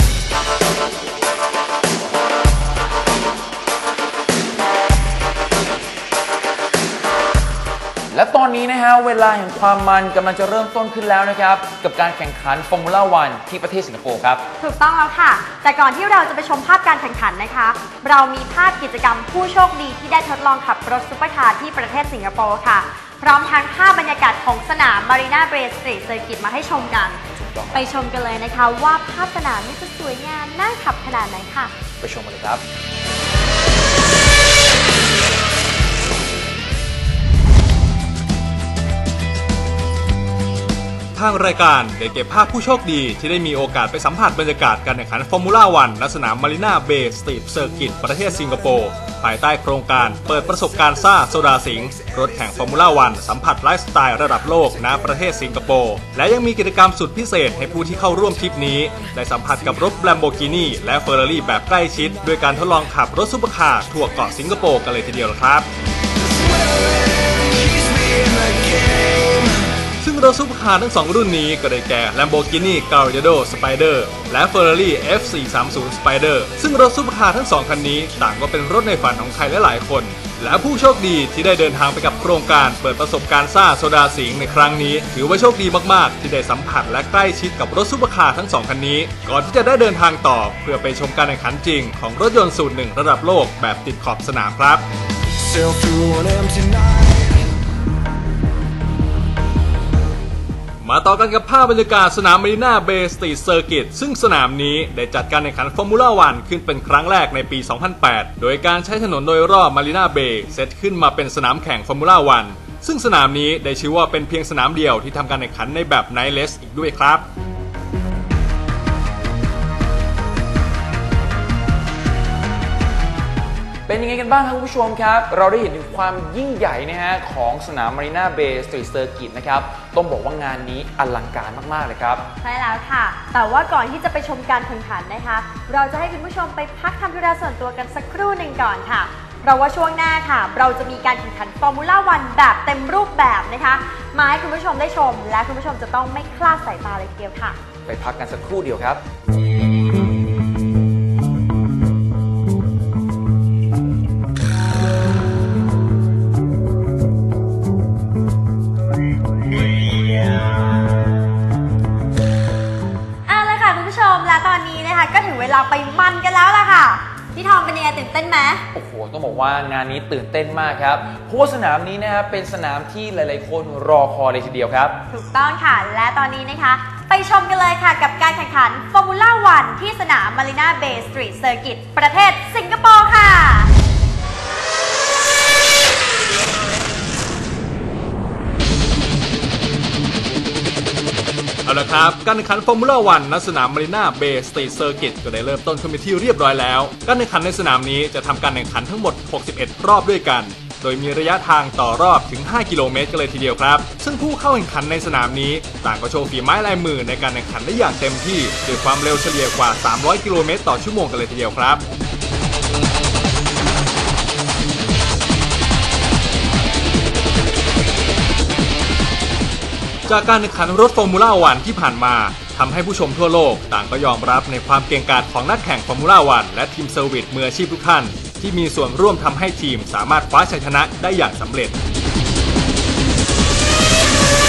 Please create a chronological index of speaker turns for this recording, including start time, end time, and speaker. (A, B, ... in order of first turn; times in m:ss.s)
0:08.1-0:14.4 A
0:14.6-0:27.2 B
0:27.4-0:27.9 A
0:27.7-0:31.7 B
0:32.0-0:32.6 A
0:41.1-1:05.7 C
1:06.3-1:09.6 D
1:10.0-1:34.8 C
1:35.4-1:37.4 D
1:40.8-1:57.3 C
2:03.9-2:12.2 A
2:12.4-2:27.6 B
2:27.9-2:29.0 A
2:43.3-2:48.6 B
2:48.7-2:55.0 A
2:55.1-3:03.7 B
3:11.6-3:31.8 C
3:40.1-3:51.8 C